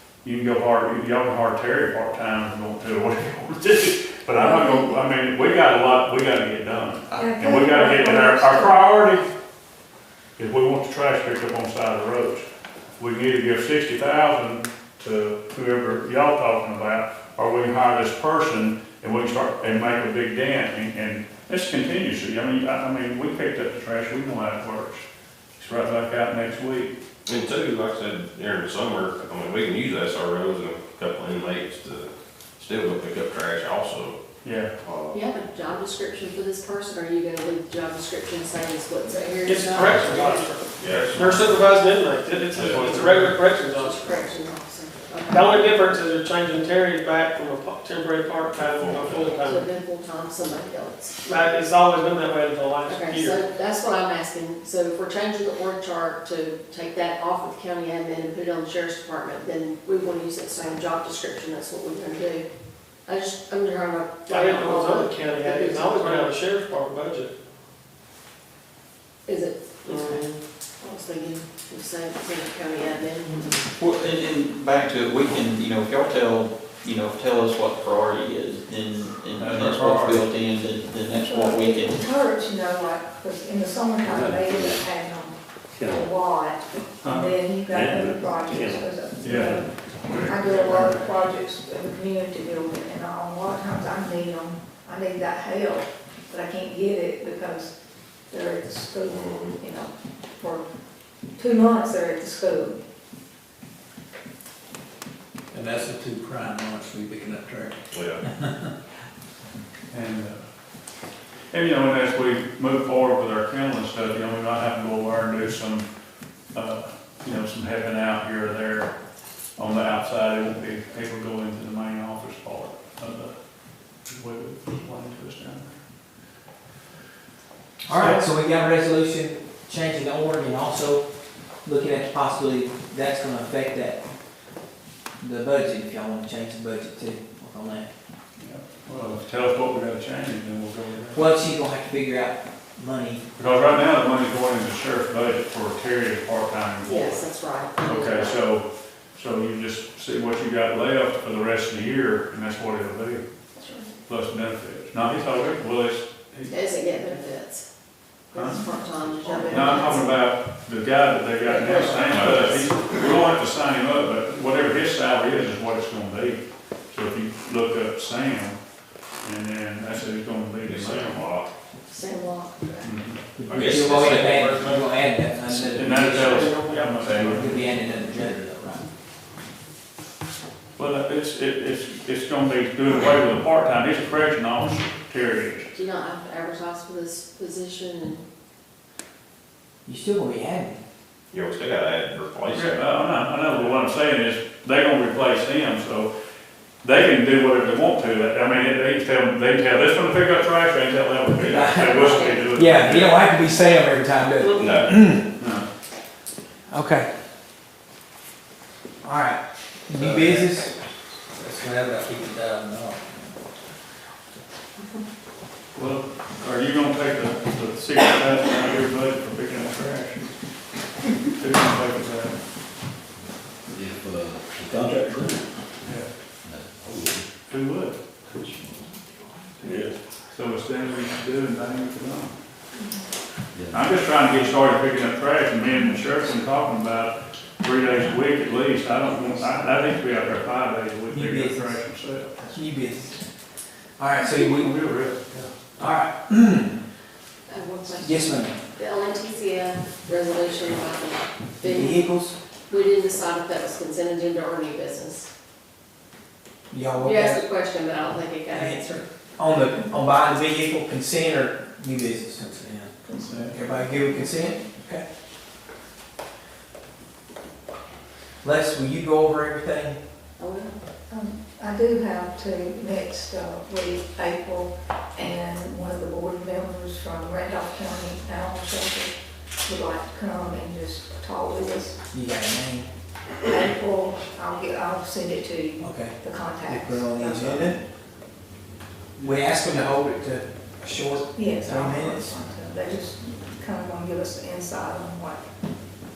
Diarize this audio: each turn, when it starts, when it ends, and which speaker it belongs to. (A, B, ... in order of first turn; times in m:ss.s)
0:00.2-0:09.3 A
0:04.4-0:04.9 B
0:07.1-0:08.8 B
0:10.4-0:12.4 A
0:13.0-0:25.0 A
0:25.6-0:27.0 A
0:27.2-0:34.2 C
0:34.4-0:34.7 A
0:34.8-0:35.2 C
0:35.1-0:40.4 D
0:39.4-0:44.3 E
0:39.8-0:40.2 C
0:40.0-0:40.3 A
0:40.8-0:41.4 C
0:40.9-0:41.6 A
0:42.5-0:43.0 C
0:42.7-0:43.3 A
0:43.6-0:45.7 D
0:45.3-0:49.7 E
0:48.4-0:49.4 C
0:49.4-0:51.2 D
0:51.2-0:53.4 E
0:52.8-1:02.5 D
1:03.0-1:06.4 D
1:04.3-1:07.3 E
1:09.3-1:13.5 D
1:09.9-1:10.4 E
1:13.6-1:22.1 F
1:19.4-1:20.2 A
1:21.1-1:37.7 B
1:24.0-1:24.8 G
1:25.7-1:26.0 G
1:27.0-1:27.3 A
1:27.7-1:28.8 G
1:29.2-1:29.6 A
1:30.1-1:31.1 A
1:38.3-1:40.6 B
1:39.1-1:39.6 C
1:41.4-1:42.8 B
1:45.5-1:47.8 H
1:47.9-1:48.2 C
1:49.9-1:50.4 A
1:51.5-1:55.9 A
1:56.5-1:58.9 A
1:59.6-2:03.3 A
2:04.1-2:05.8 A
2:07.9-2:11.0 I
2:07.9-2:08.3 A
2:11.6-2:14.0 I
2:15.2-2:17.9 I
2:18.4-2:21.2 A
2:21.1-2:23.2 I
2:23.4-2:27.2 A
2:26.8-2:28.4 D
2:27.8-2:33.2 A
2:33.6-2:33.9 B
2:34.1-2:36.5 A
2:36.5-2:37.6 D
2:38.3-2:40.2 D
2:38.3-2:38.6 A
2:38.6-2:40.0 B
2:39.5-2:48.6 A
2:41.4-2:42.8 D
2:49.2-2:51.4 A
2:50.6-2:51.5 C
2:51.9-2:52.9 D
2:52.8-2:53.2 A
2:53.4-2:56.5 I
2:53.5-2:54.2 C
2:53.5-2:54.8 G
2:55.8-2:57.5 A
2:56.0-2:57.5 E
2:57.0-2:58.4 G
2:57.2-2:58.8 I
3:00.8-3:05.7 A
3:05.8-3:08.2 D
3:09.8-3:10.8 I
3:11.3-3:12.8 C
3:12.5-3:16.1 A
3:16.8-3:23.2 A
3:21.4-3:25.3 I
3:21.7-3:22.5 D
3:24.5-3:25.0 C
3:25.4-3:25.7 A
3:26.7-3:27.1 I
3:29.0-3:30.7 I
3:29.9-3:30.6 H
3:31.4-3:33.0 H
3:35.8-3:40.3 A
3:41.2-3:42.4 A
3:43.7-3:45.5 G
3:45.8-3:46.1 A
3:46.4-3:47.2 G
3:47.5-3:47.9 A
3:49.6-3:52.3 A
3:53.5-3:54.2 G
3:53.7-4:02.5 A
4:01.1-4:01.8 I
4:02.5-4:03.2 I
4:04.0-4:04.8 I
4:04.4-4:05.5 A
4:05.8-4:06.8 I
4:07.5-4:12.1 D
4:07.9-4:08.6 I
4:11.6-4:12.3 I
4:12.7-4:15.3 D
4:16.7-4:17.5 I
4:17.0-4:19.0 D
4:18.5-4:25.0 I
4:23.0-4:24.6 B
4:28.4-4:30.0 I
4:30.4-4:30.8 D
4:31.1-4:42.0 B
4:42.1-4:42.9 I
4:43.4-4:47.8 B
4:45.8-4:47.8 I
4:49.2-4:52.4 I
4:51.4-4:55.4 B